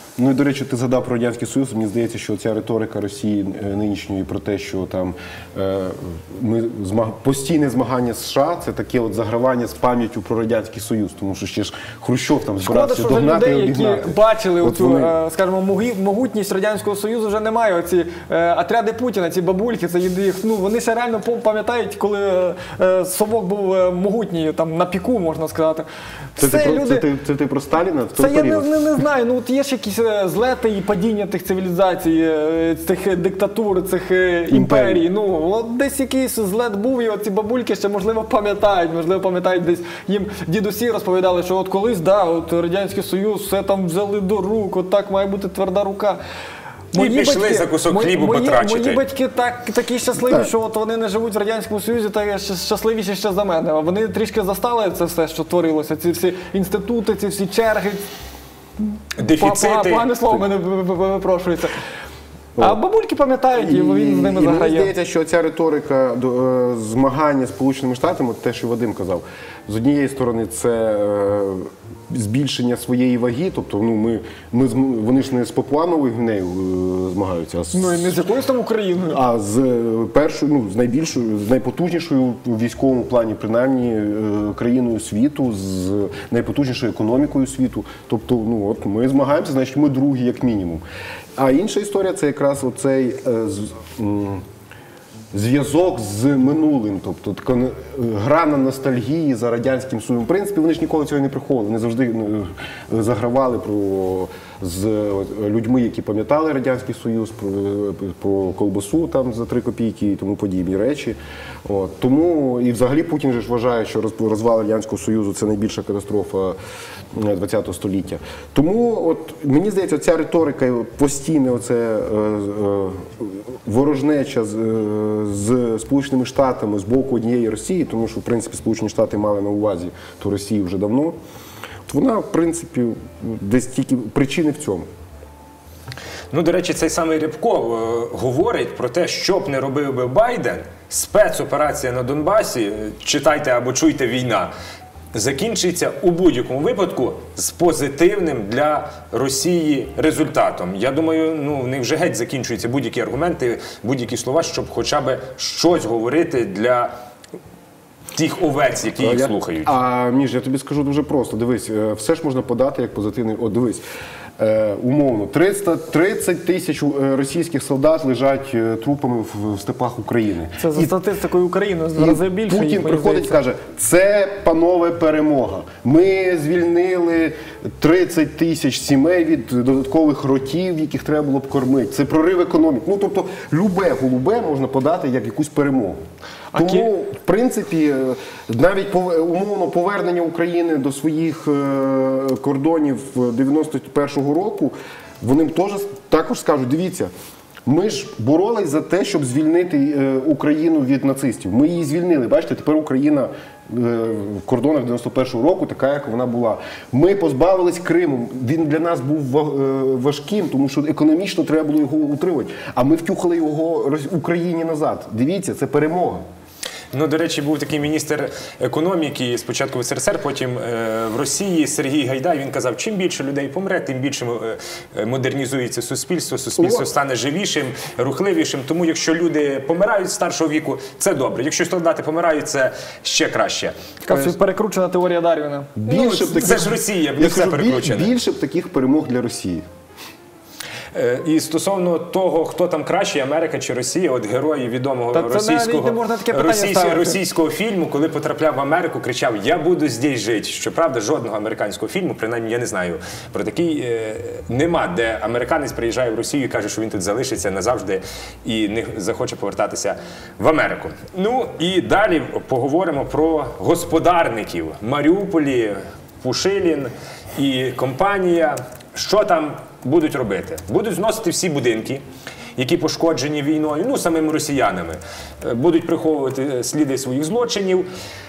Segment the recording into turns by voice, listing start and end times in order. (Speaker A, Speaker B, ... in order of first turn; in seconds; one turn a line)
Speaker A: 0.2-15.1
Speaker B: 12.6-27.1
Speaker A: 26.4-28.7
Speaker B: 28.2-46.2
Speaker A: 34.5-35.1
Speaker B: 46.9-58.1
Speaker C: 47.0-49.0
Speaker C: 59.2-60.2
Speaker B: 59.3-61.8
Speaker B: 62.6-64.9
Speaker A: 63.5-78.2
Speaker B: 77.7-79.2
Speaker A: 79.1-90.8
Speaker A: 91.4-94.4
Speaker A: 95.3-116.6
Speaker A: 117.1-131.2
Speaker A: 131.9-134.9
Speaker C: 136.3-144.5
Speaker C: 145.1-156.9
Speaker C: 158.1-159.7
Speaker A: 159.0-163.8
Speaker A: 164.4-170.9
Speaker B: 170.6-173.4
Speaker A: 172.0-186.0
Speaker B: 186.5-186.9
Speaker A: 186.6-197.1
Speaker A: 197.7-216.2
Speaker C: 216.9-234.3
Speaker B: 234.1-235.8
Speaker A: 235.8-239.7
Speaker C: 235.9-238.1
Speaker C: 240.9-272.0
Speaker B: 245.1-247.2
Speaker C: 272.6-277.9